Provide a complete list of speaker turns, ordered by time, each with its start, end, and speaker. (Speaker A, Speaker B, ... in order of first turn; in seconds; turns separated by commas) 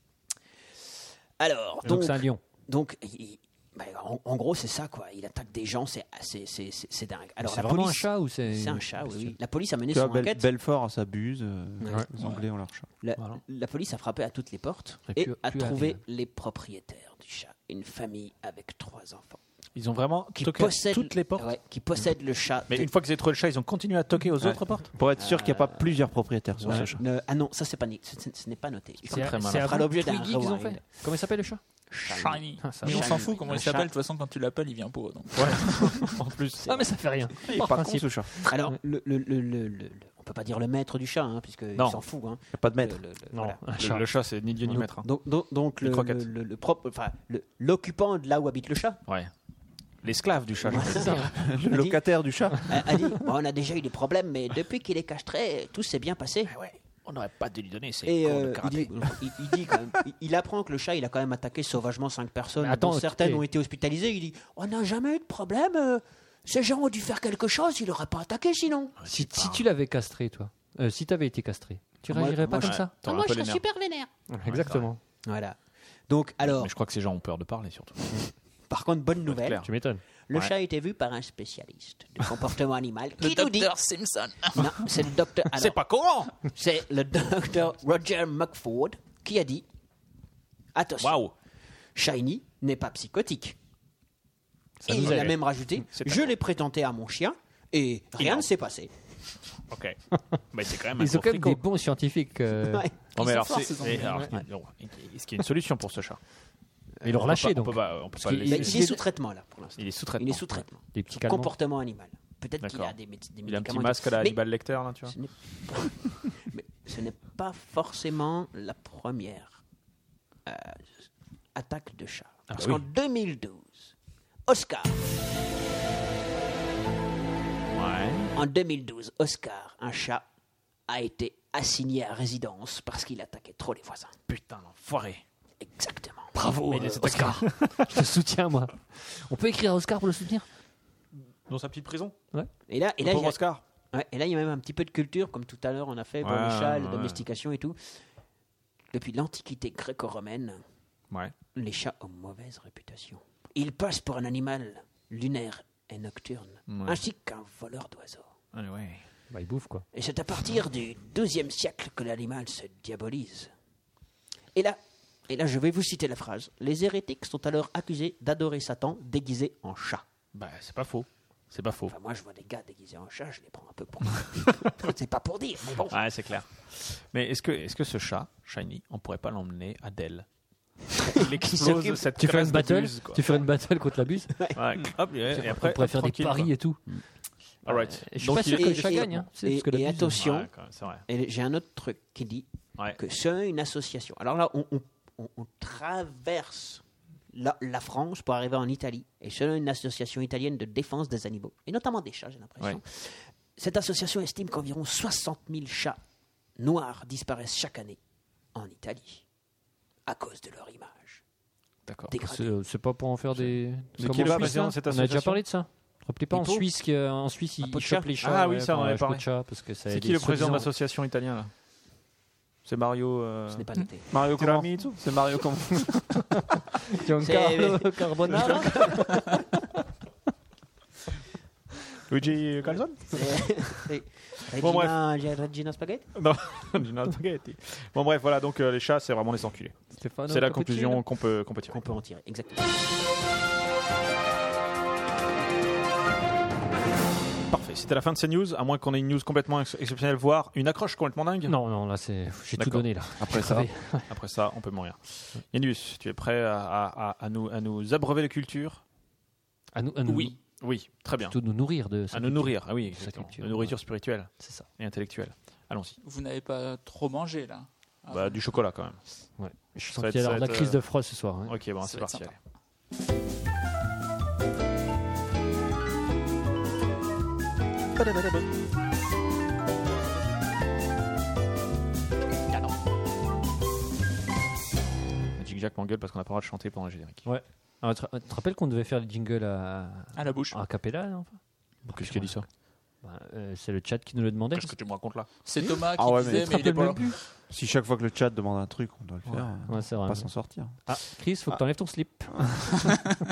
Speaker A: 1.4-10.4, Speaker B: 1.8-2.4, Speaker B: 7.4-9.4, Speaker C: 9.9-12.9, Speaker A: 11.8-12.4, Speaker A: 13.0-19.4, Speaker B: 15.2-16.0, Speaker D: 19.8-21.5, Speaker A: 20.4-22.9, Speaker D: 22.7-25.1, Speaker C: 24.4-26.9, Speaker A: 25.2-26.0, Speaker A: 26.6-30.8, Speaker B: 29.1-31.6, Speaker D: 29.1-29.9, Speaker A: 31.9-33.9, Speaker E: 32.0-36.0, Speaker B: 32.6-33.2, Speaker D: 35.4-36.8, Speaker B: 36.6-38.5, Speaker C: 37.5-38.3, Speaker A: 38.5-43.6, Speaker D: 41.8-42.0, Speaker C: 42.5-43.0, Speaker B: 43.3-44.1, Speaker D: 43.8-45.1, Speaker A: 44.8-49.0, Speaker D: 45.8-46.3, Speaker D: 49.1-49.3, Speaker D: 50.0-51.4, Speaker A: 50.6-52.0, Speaker B: 50.8-51.3, Speaker C: 51.3-52.8, Speaker A: 52.7-56.5, Speaker D: 56.5-59.2, Speaker A: 58.0-69.0, Speaker B: 62.6-63.4, Speaker D: 69.0-69.7, Speaker B: 69.1-72.9, Speaker A: 72.1-72.9, Speaker D: 72.6-73.7, Speaker E: 73.1-74.0, Speaker B: 74.3-75.0, Speaker D: 74.5-74.9, Speaker A: 75.2-76.7, Speaker D: 76.5-78.3, Speaker A: 78.7-79.7, Speaker D: 79.3-79.7, Speaker B: 79.6-80.0, Speaker A: 80.3-83.7, Speaker E: 83.2-84.7, Speaker A: 84.5-85.9, Speaker D: 85.5-86.5, Speaker A: 86.4-89.7, Speaker A: 90.8-91.3, Speaker D: 91.0-91.3, Speaker A: 92.0-93.6, Speaker B: 94.9-95.2, Speaker A: 94.9-98.9, Speaker D: 94.9-96.3, Speaker D: 98.2-98.5, Speaker D: 99.7-101.6, Speaker B: 101.0-102.8, Speaker A: 102.7-103.0, Speaker D: 103.2-106.2, Speaker E: 103.2-104.3, Speaker B: 104.1-104.3, Speaker B: 107.0-109.0, Speaker D: 107.1-109.0, Speaker A: 108.5-119.6, Speaker D: 109.8-110.6, Speaker B: 110.9-111.5, Speaker D: 112.6-115.1, Speaker A: 120.5-120.9, Speaker A: 121.5-123.9, Speaker D: 122.5-122.8, Speaker A: 124.5-125.0, Speaker D: 127.7-128.3, Speaker A: 128.3-130.2, Speaker A: 130.9-134.2, Speaker D: 134.3-135.2, Speaker A: 135.6-136.3, Speaker B: 136.3-140.5, Speaker D: 136.7-138.0, Speaker D: 141.5-142.2, Speaker A: 142.7-147.8, Speaker D: 143.0-143.6, Speaker D: 146.2-147.2, Speaker A: 148.9-150.6, Speaker A: 151.5-158.3, Speaker D: 156.7-157.0, Speaker D: 158.5-159.0, Speaker B: 159.3-159.8, Speaker A: 159.9-163.5, Speaker A: 164.5-170.0, Speaker D: 170.3-171.9, Speaker A: 171.9-176.0, Speaker D: 175.9-180.3, Speaker D: 181.2-183.4, Speaker A: 181.3-182.0, Speaker B: 182.1-184.4, Speaker D: 184.6-186.6, Speaker B: 185.3-186.9, Speaker D: 187.7-189.1, Speaker B: 187.7-190.2, Speaker A: 188.5-206.0, Speaker D: 190.2-191.1, Speaker A: 206.6-208.0, Speaker A: 208.6-209.2, Speaker A: 210.1-211.2, Speaker D: 211.9-212.1, Speaker A: 212.1-212.5, Speaker B: 212.2-220.7, Speaker D: 214.0-215.4, Speaker C: 214.0-214.6, Speaker A: 216.3-216.7, Speaker A: 217.6-218.1, Speaker D: 218.2-219.3, Speaker D: 219.9-221.5, Speaker D: 222.7-225.0, Speaker A: 223.5-224.1, Speaker C: 224.1-226.2, Speaker B: 226.9-229.4, Speaker A: 227.2-229.4, Speaker D: 232.1-233.8, Speaker A: 232.7-236.1, Speaker D: 234.6-235.0, Speaker D: 236.1-241.8, Speaker B: 239.9-241.0, Speaker A: 241.7-242.7, Speaker D: 247.5-251.6, Speaker B: 251.4-254.1, Speaker D: 252.6-252.9, Speaker C: 253.2-253.7, Speaker D: 254.1-258.8, Speaker B: 259.8-260.4, Speaker D: 260.1-261.4, Speaker B: 261.3-263.8, Speaker D: 262.1-266.0, Speaker B: 264.4-264.7, Speaker E: 266.0-268.4, Speaker D: 268.1-269.0, Speaker B: 269.4-271.6, Speaker D: 269.9-270.8, Speaker D: 271.5-272.4, Speaker D: 278.0-278.5, Speaker D: 285.4-287.3, Speaker B: 287.2-292.4, Speaker E: 290.2-290.6, Speaker D: 291.9-292.4, Speaker B: 293.0-294.8, Speaker D: 294.5-295.3, Speaker E: 295.4-297.1, Speaker C: 296.0-296.8, Speaker B: 296.3-297.2, Speaker C: 297.5-300.8, Speaker B: 299.7-300.3, Speaker B: 300.9-302.4